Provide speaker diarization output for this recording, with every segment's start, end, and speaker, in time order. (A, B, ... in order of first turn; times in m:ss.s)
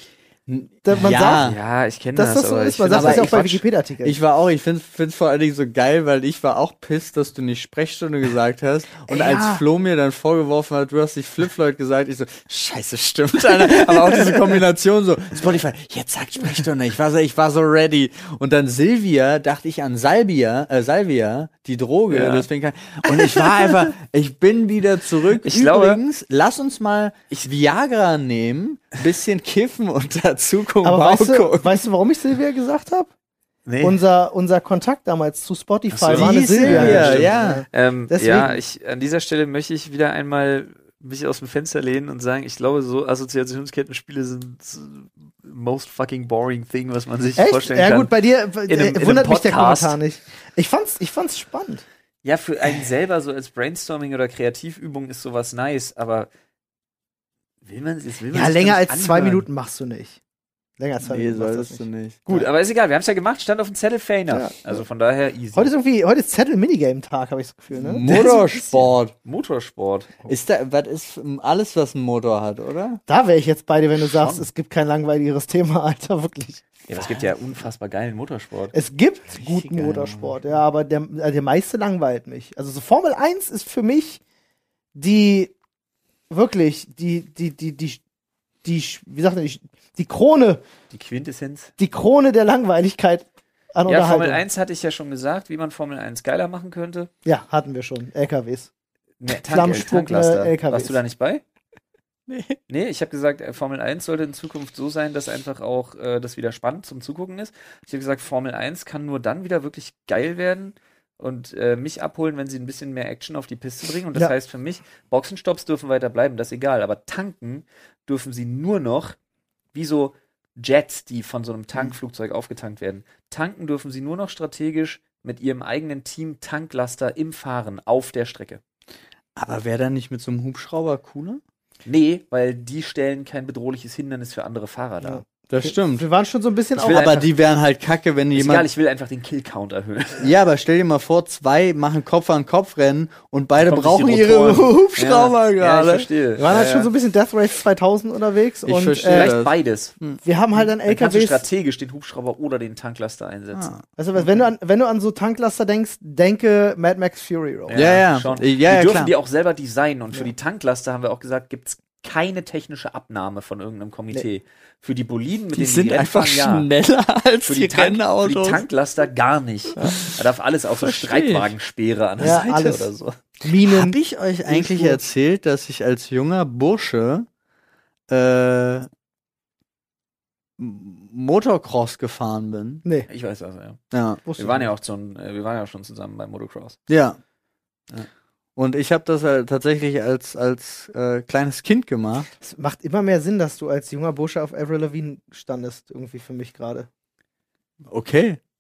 0:00.5-0:01.6 A
0:00.8-0:01.5 B
0:01.4-0:03.6 C
0:02.1-0:04.2 B
0:02.9-0:03.4 A
0:04.0-0:31.7 A
0:09.1-0:09.6 B
0:22.1-0:22.5 C
0:23.2-0:23.8 C
0:25.4-0:26.0 C
0:30.8-0:33.1 B
0:33.7-0:34.0 C
0:33.8-0:38.6 B
0:35.9-0:48.1 C
0:36.1-0:37.6 A
0:47.4-0:51.8 B
0:48.7-0:50.0 C
0:52.2-0:56.3 C
0:57.6-0:59.4 C
0:58.3-1:00.2 B
1:00.8-1:02.5 B
1:01.0-1:02.2 A
1:02.3-1:05.7 C
1:04.3-1:04.8 B
1:05.5-1:08.4 B
1:07.7-1:09.1 A
1:08.1-1:10.3 C
1:10.3-1:13.0 A
1:13.1-1:16.6 B
1:14.0-1:14.5 C
1:16.9-1:18.7 C
1:18.7-1:24.2 B
1:19.4-1:20.3 A
1:25.0-1:25.5 B
1:26.3-1:28.0 B
1:28.6-1:30.6 B
1:30.9-1:31.7 C
1:31.8-1:34.4 B
1:33.9-1:37.1 C
1:37.2-1:38.7 B
1:39.2-1:41.4 C
1:39.3-1:41.0 B
1:42.3-1:42.6 A
1:42.7-1:59.2 C
1:59.7-2:08.6 C
2:09.4-2:11.4 A
2:11.8-2:15.2 C
2:15.0-2:17.3 B
2:15.5-2:16.1 A
2:16.8-2:17.3 C
2:16.8-2:18.7 A
2:18.3-2:20.3 C
2:20.2-2:26.1 A
2:23.6-2:26.9 C
2:26.4-2:29.4 B
2:28.7-2:30.2 A
2:29.1-2:30.0 C
2:30.2-2:31.4 B
2:30.6-2:33.7 C
2:33.5-2:33.8 A
2:34.0-2:37.9 B
2:37.7-2:46.7 C
2:37.7-2:39.1 A
2:45.5-2:48.6 A
2:47.4-2:53.2 C
2:49.8-2:50.2 A
2:50.8-2:51.5 A
2:52.2-2:52.4 A
2:52.2-2:52.9 B
2:53.4-2:54.0 B
2:53.6-2:57.3 A
2:54.5-2:55.0 B
2:58.1-2:58.9 A
3:00.6-3:02.8 A
3:03.1-3:03.8 C
3:03.9-3:04.2 A
3:04.3-3:04.7 B
3:04.4-3:06.8 C
3:06.9-3:07.2 A
3:07.9-3:12.3 A
3:12.4-3:16.9 B
3:17.9-3:18.4 A